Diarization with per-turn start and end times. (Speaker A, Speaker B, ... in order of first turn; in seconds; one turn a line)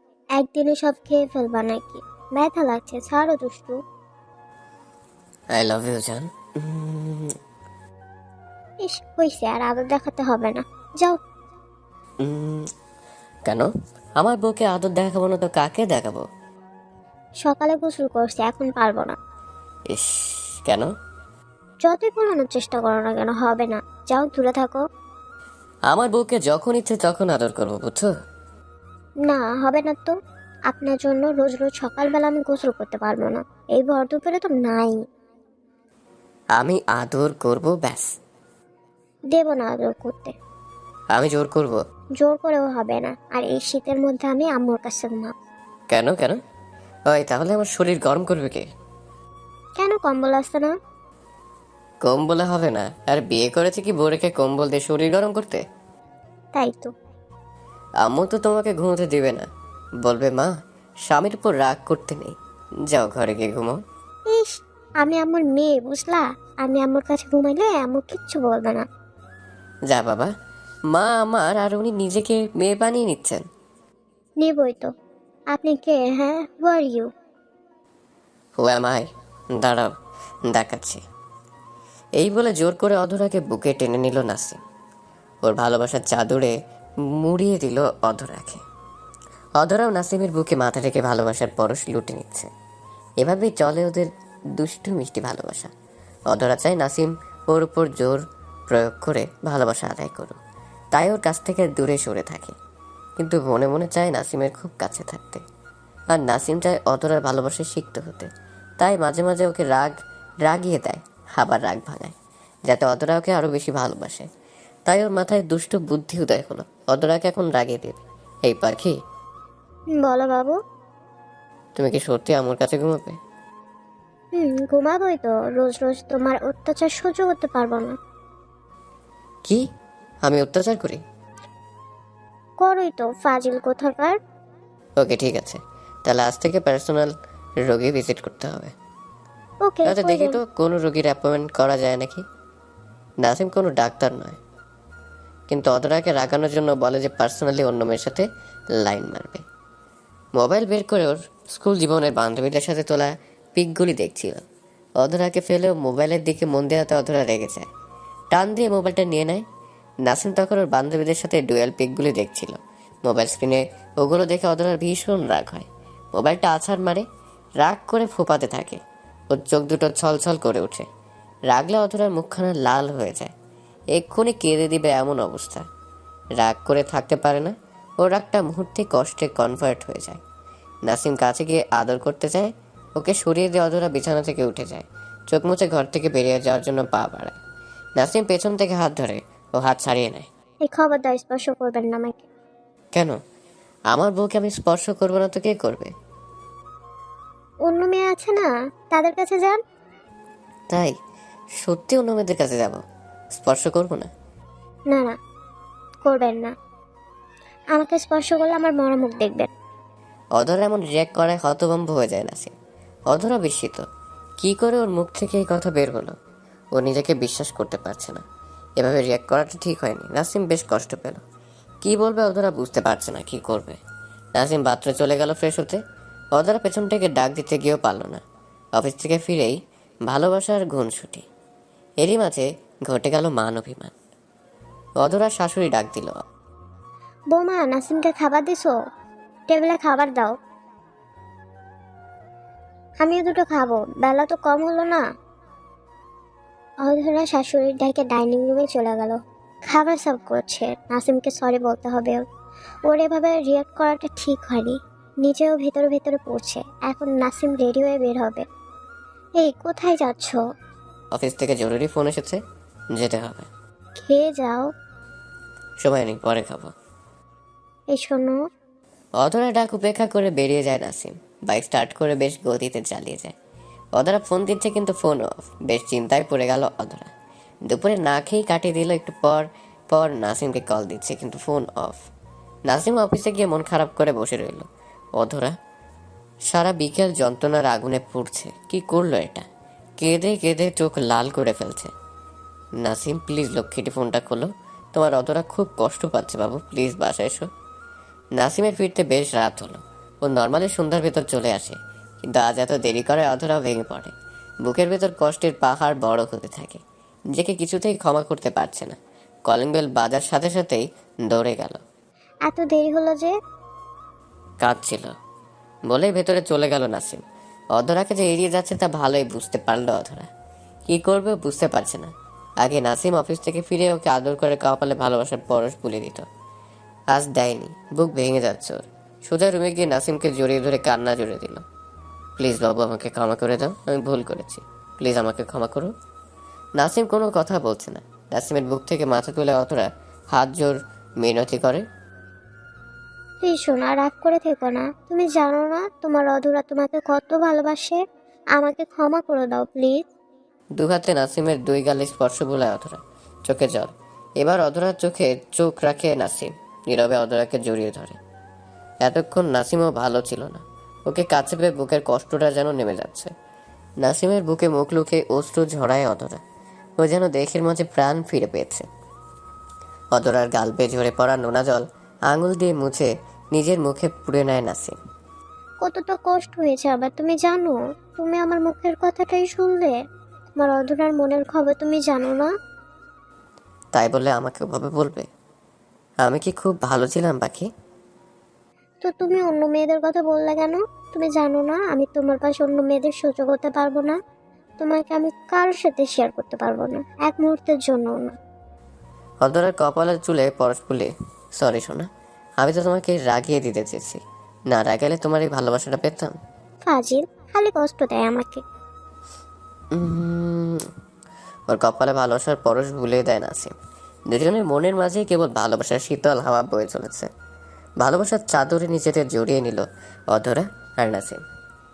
Speaker A: 0.4-3.8
Speaker B: 5.5-7.3
Speaker A: 8.8-11.2
Speaker B: 12.2-12.7
Speaker B: 13.5-16.2
Speaker A: 17.4-19.2
Speaker B: 19.9-20.9
Speaker A: 21.8-24.8
Speaker B: 25.9-28.1
Speaker A: 29.3-30.1
Speaker A: 30.7-35.0
Speaker B: 36.6-38.1
Speaker A: 39.3-40.4
Speaker B: 41.1-41.8
Speaker A: 42.2-45.3
Speaker B: 45.9-46.4
Speaker B: 47.1-48.6
Speaker A: 49.8-50.7
Speaker B: 52.0-55.6
Speaker A: 56.5-56.9
Speaker B: 58.0-59.5
Speaker B: 60.0-60.5
Speaker B: 61.1-62.4
Speaker B: 62.9-63.8
Speaker A: 64.3-68.8
Speaker B: 69.9-70.3
Speaker B: 70.9-73.5
Speaker A: 74.4-74.9
Speaker A: 75.5-77.1
Speaker B: 78.6-79.0
Speaker B: 79.6-79.9
Speaker B: 80.5-81.0
Speaker B: 82.2-84.6
Speaker B: 85.4-86.5
Speaker B: 87.2-88.6
Speaker B: 89.6-92.5
Speaker B: 93.2-95.7
Speaker B: 96.3-100.4
Speaker B: 100.9-102.5
Speaker B: 103.2-105.4
Speaker B: 106.1-108.3
Speaker B: 108.8-109.9
Speaker B: 110.5-112.1
Speaker B: 112.7-114.3
Speaker B: 114.9-119.0
Speaker A: 120.0-120.6
Speaker B: 121.8-123.2
Speaker A: 124.3-128.0
Speaker B: 130.2-131.0
Speaker A: 132.6-134.2
Speaker B: 135.0-137.1
Speaker B: 137.7-138.7
Speaker A: 139.6-140.4
Speaker B: 139.9-142.2
Speaker B: 143.2-144.4
Speaker B: 145.5-148.3
Speaker B: 148.8-149.4
Speaker B: 150.4-154.4
Speaker B: 155.0-157.7
Speaker B: 158.3-159.4
Speaker B: 160.1-167.1
Speaker B: 167.6-170.9
Speaker B: 171.5-173.3
Speaker B: 173.9-175.7
Speaker B: 176.4-180.2
Speaker B: 180.9-187.4
Speaker B: 188.0-190.3
Speaker A: 190.7-192.3
Speaker B: 193.9-195.9
Speaker A: 197.7-199.6
Speaker B: 201.6-202.8
Speaker B: 203.3-204.1
Speaker A: 206.0-206.5
Speaker A: 207.7-209.5
Speaker B: 210.4-212.5
Speaker B: 213.1-213.8
Speaker B: 214.4-216.1
Speaker B: 216.8-218.2
Speaker B: 218.8-221.2
Speaker B: 221.8-223.8
Speaker B: 224.4-225.8
Speaker B: 226.3-228.2
Speaker B: 228.8-229.6
Speaker B: 230.1-231.2
Speaker B: 232.0-233.9
Speaker B: 235.0-236.2
Speaker A: 237.3-238.7
Speaker A: 239.5-240.3
Speaker A: 243.0-245.0
Speaker A: 246.8-252.2
Speaker A: 252.9-258.4
Speaker A: 259.4-260.4
Speaker B: 261.1-262.4
Speaker B: 262.9-263.5
Speaker A: 264.0-264.7
Speaker B: 265.8-266.7
Speaker A: 267.9-268.4
Speaker B: 269.2-273.3
Speaker B: 274.0-277.1
Speaker B: 277.7-282.0
Speaker B: 282.7-285.5
Speaker B: 286.5-289.4
Speaker B: 290.0-291.9
Speaker B: 292.8-297.5
Speaker B: 298.4-304.1
Speaker B: 304.6-306.8
Speaker B: 307.3-311.8
Speaker A: 312.5-313.3
Speaker B: 314.6-315.1
Speaker B: 315.9-317.2
Speaker B: 317.8-320.3
Speaker B: 320.9-326.3
Speaker B: 327.1-331.6
Speaker B: 332.4-335.9
Speaker B: 336.8-341.8
Speaker A: 343.4-348.0
Speaker A: 348.6-350.1
Speaker B: 350.8-358.2
Speaker B: 359.0-363.3
Speaker B: 364.0-366.4
Speaker B: 367.0-368.9
Speaker B: 370.1-375.0
Speaker A: 375.8-379.9
Speaker A: 380.6-382.5
Speaker B: 383.9-385.3
Speaker B: 386.2-387.7
Speaker A: 389.0-394.2
Speaker A: 394.8-398.4
Speaker B: 399.4-402.1
Speaker B: 402.6-406.4
Speaker A: 406.9-408.6
Speaker B: 409.9-410.9
Speaker B: 411.7-413.7
Speaker B: 414.3-417.3
Speaker B: 418.0-421.4